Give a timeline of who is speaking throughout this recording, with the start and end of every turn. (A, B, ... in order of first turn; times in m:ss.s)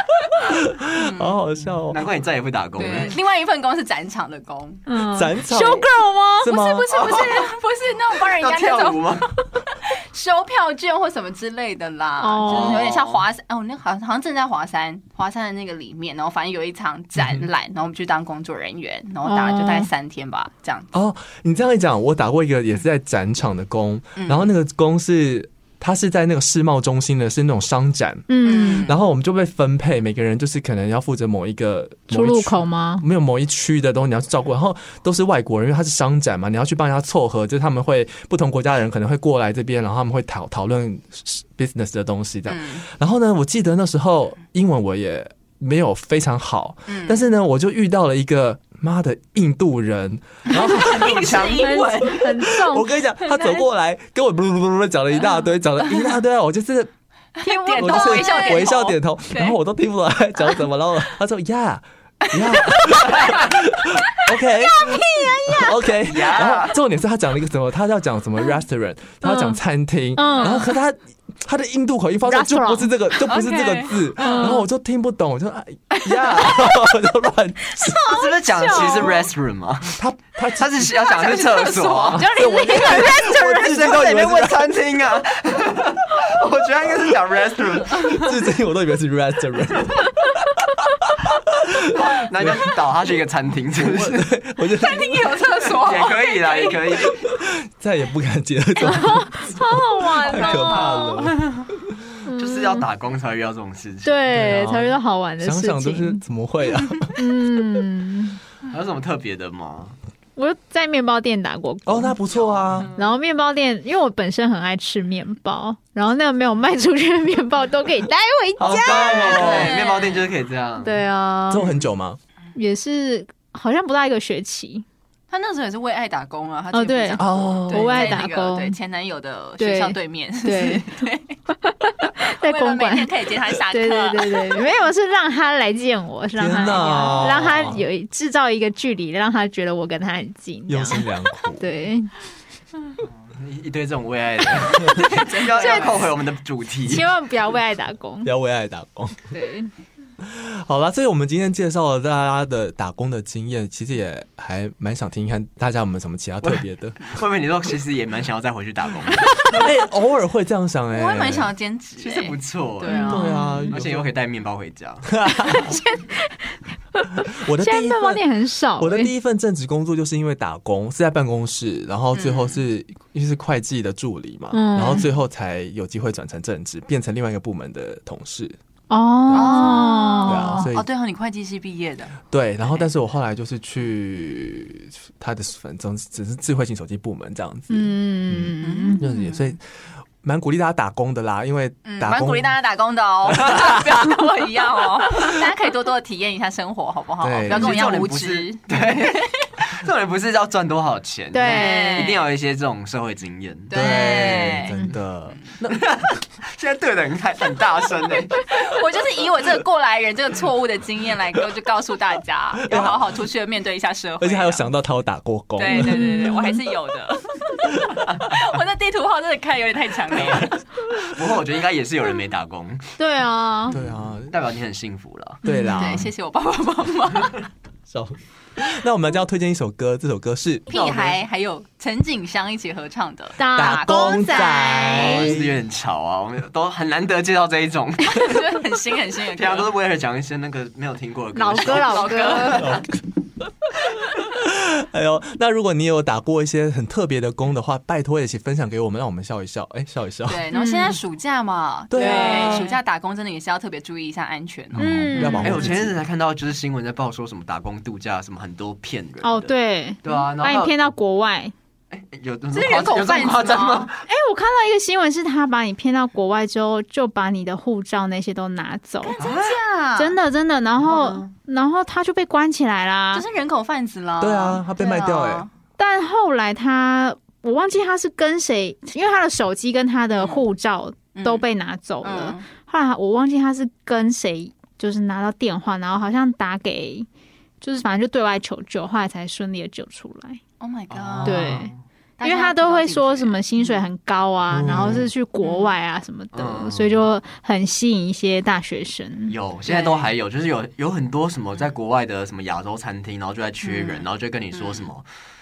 0:00.4-0:02.0 A
0:00.9-0:01.4 B
0:01.9-0:03.2 C
0:02.8-0:04.8 B
0:04.9-0:06.5 D
0:05.0-0:05.9 A
0:05.5-0:05.8 B
0:06.4-0:07.0 A
0:06.4-0:20.9 B
0:06.9-0:07.5 C
0:08.1-0:09.3 C
0:12.2-0:12.8 D
0:12.5-0:13.2 C
0:17.2-0:17.4 A
0:19.2-0:19.9 D
0:20.9-0:51.3 A
0:24.2-0:24.5 B
0:28.3-0:28.9 D
0:28.4-0:29.0 B
0:32.1-0:33.0 D
0:42.5-0:42.8 B
0:46.9-0:47.2 B
0:50.5-0:52.5 B
0:50.8-0:51.7 C
0:51.6-0:52.9 D
0:52.1-0:56.9 A
0:53.3-0:53.6 B
0:57.4-0:59.6 B
0:57.4-0:58.8 D
0:57.8-1:18.0 A
1:02.3-1:03.4 B
1:04.6-1:05.8 D
1:06.0-1:06.8 C
1:06.3-1:06.6 B
1:09.2-1:09.6 D
1:10.2-1:10.7 D
1:12.2-1:12.9 D
1:13.3-1:14.6 B
1:14.2-1:14.6 D
1:16.2-1:16.6 B
1:17.7-1:19.2 D
1:18.0-1:20.0 C
1:19.9-1:20.9 A
1:20.6-1:22.3 C
1:21.0-1:23.6 B
1:22.1-1:24.8 A
1:22.2-1:23.5 D
1:22.9-1:28.2 C
1:28.0-1:32.8 A
1:32.0-1:34.3 C
1:33.7-1:35.4 A
1:34.6-1:37.1 B
1:35.6-1:37.2 C
1:37.1-1:42.0 A
1:38.8-1:41.2 D
1:40.3-1:41.2 B
1:42.2-1:42.8 D
1:42.3-1:44.3 C
1:44.0-1:46.2 D
1:44.3-1:47.2 A
1:47.1-1:48.4 D
1:48.7-1:50.0 C
1:50.4-1:52.2 D
1:51.8-1:52.9 A
1:52.9-1:59.6 D
1:58.6-1:59.8 A
1:58.6-2:01.0 C
1:59.3-2:00.2 B
2:00.8-2:01.6 D
2:01.5-2:02.2 A
2:02.5-2:04.8 D
2:05.3-2:11.4 B
2:06.7-2:08.8 D
2:07.2-2:08.2 A
2:09.6-2:21.1 D
2:12.2-2:14.7 B
2:16.4-2:17.8 A
2:16.9-2:17.2 B
2:20.7-2:21.6 A
2:21.6-2:22.1 D
2:23.0-2:27.1 C
2:24.7-2:26.1 B
2:25.6-2:26.0 D
2:26.9-2:28.3 D
2:28.2-2:29.2 A
2:29.3-2:29.7 D
2:30.2-2:37.0 A
2:36.4-2:39.6 C
2:39.5-2:41.5 A
2:40.9-2:43.3 B
2:42.0-2:43.2 C
2:42.8-2:43.7 D
2:43.0-2:44.0 A
2:43.7-2:45.7 C
2:45.1-2:45.7 A
2:45.5-2:49.1 D
2:47.3-2:48.2 A
2:48.8-2:58.6 A
2:52.1-2:52.6 B
2:54.5-2:55.0 D
2:58.9-3:00.7 D
2:59.3-3:00.9 A
2:59.3-3:02.2 B
3:02.3-3:09.6 A
3:07.7-3:09.0 D
3:08.6-3:09.6 B
3:10.2-3:12.5 A
3:11.8-3:19.5 B
3:13.4-3:13.7 A
3:17.2-3:17.8 A
3:17.5-3:24.5 C
3:21.3-3:22.2 D
3:21.4-3:22.2 B
3:23.7-3:24.8 B
3:23.7-3:25.8 A
3:25.7-3:28.5 C
3:28.5-3:34.7 B
3:32.6-3:33.0 A
3:32.7-3:33.0 C
3:34.2-3:36.5 A
3:35.6-3:40.6 B
3:35.7-3:36.5 D
3:37.6-3:38.0 A
3:41.1-3:42.9 C
3:43.0-3:43.7 D
3:43.7-3:45.4 C
3:43.7-3:44.3 A
3:45.4-3:46.0 D
3:45.4-3:46.1 A
3:45.8-3:47.5 B
3:47.9-3:50.6 A
3:50.7-3:54.6 B
3:50.7-3:51.2 C
3:53.4-3:55.4 D
3:53.6-3:55.6 A
3:54.9-3:58.6 C
3:58.1-3:59.7 B
3:59.3-4:02.6 C
4:01.3-4:02.8 D
4:01.6-4:02.8 B
4:02.6-4:02.9 A
4:04.1-4:10.4 A
4:10.3-4:15.5 B
4:10.5-4:11.0 D
4:11.9-4:12.7 A
4:12.0-4:12.7 D
4:14.7-4:16.0 A
4:14.8-4:15.8 D
4:15.4-4:20.7 C
4:19.2-4:21.5 D
4:21.9-4:24.0 C
4:22.5-4:23.9 B
4:24.0-4:29.2 D
4:29.1-4:30.2 B
4:29.2-4:29.6 C
4:30.0-4:33.2 D
4:30.9-4:31.3 B
4:33.1-4:35.5 B
4:34.2-4:35.4 A
4:35.8-4:47.1 D
4:40.2-4:40.4 B
4:41.1-4:41.4 B
4:42.0-4:42.5 B
4:47.6-4:50.4 D
4:50.6-4:51.6 B
4:50.9-4:51.8 C
4:51.2-4:59.3 D
4:52.2-4:53.8 B
4:54.6-4:55.0 A
4:54.6-4:55.0 C
4:55.4-4:55.7 B
4:56.3-4:57.0 C
4:59.3-5:05.0 C
4:59.6-5:00.1 B
5:03.6-5:04.9 B